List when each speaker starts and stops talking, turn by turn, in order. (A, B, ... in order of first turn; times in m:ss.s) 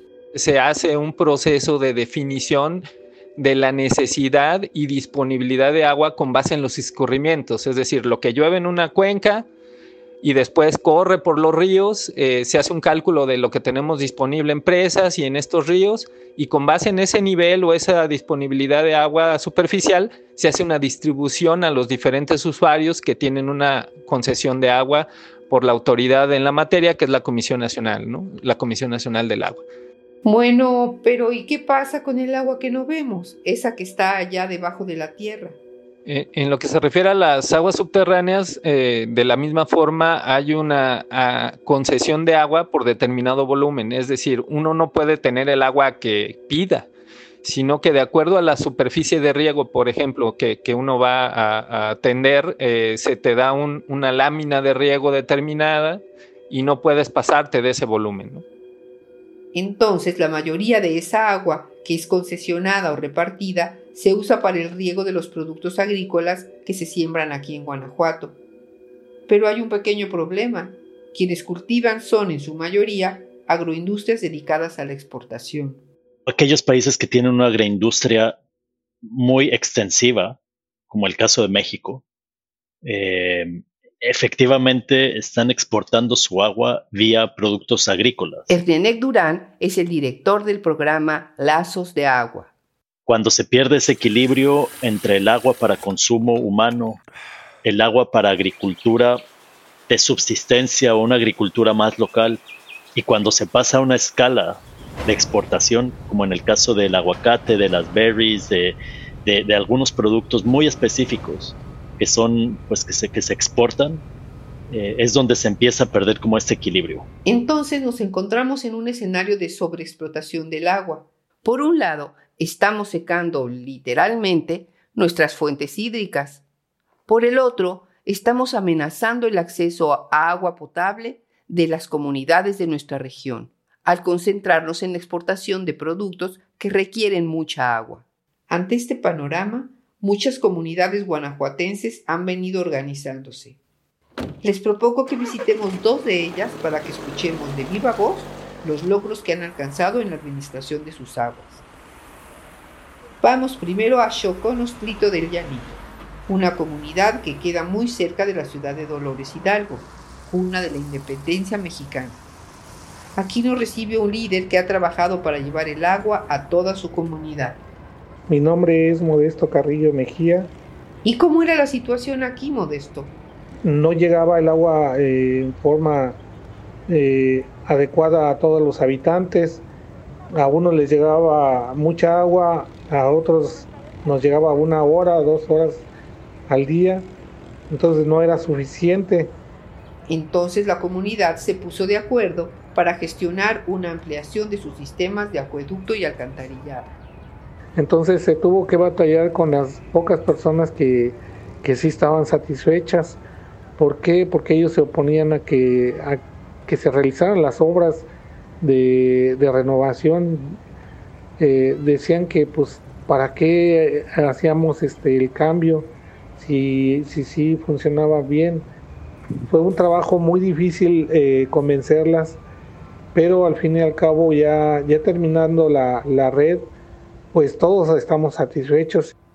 0:00.3-0:02.8 A
0:03.4-0:09.5 A
0:10.2-0:29.6 A
0:30.2-0:35.6 B
0:36.1-0:46.9 A
0:47.4-0:58.4 A
0:59.5-1:08.4 B
1:09.3-1:15.8 B
1:16.3-1:18.4 C
1:19.0-1:20.4 C
1:20.9-1:22.0 C
1:22.8-1:28.5 C
1:28.5-1:32.5 B
1:33.1-1:37.0 C
1:37.6-1:39.2 C
1:39.9-1:42.4 C
1:43.0-1:54.0 C
1:54.7-1:57.1 C
1:57.2-2:06.4 B
2:07.1-2:23.6 B
2:24.4-2:31.6 B
2:33.2-2:42.2 B
2:43.2-2:47.6 B
2:48.3-2:50.5 D
2:51.0-2:53.2 B
2:53.6-2:56.2 D
2:56.9-2:59.6 D
3:00.3-3:05.9 D
3:06.5-3:07.1 D
3:07.7-3:09.4 D
3:10.1-3:16.9 B
3:17.8-3:23.2 D
3:23.8-3:28.1 D
3:28.6-3:30.6 D
3:31.4-3:38.7 D
3:39.5-3:42.4 D
3:43.1-3:46.7 D
3:47.3-3:49.1 D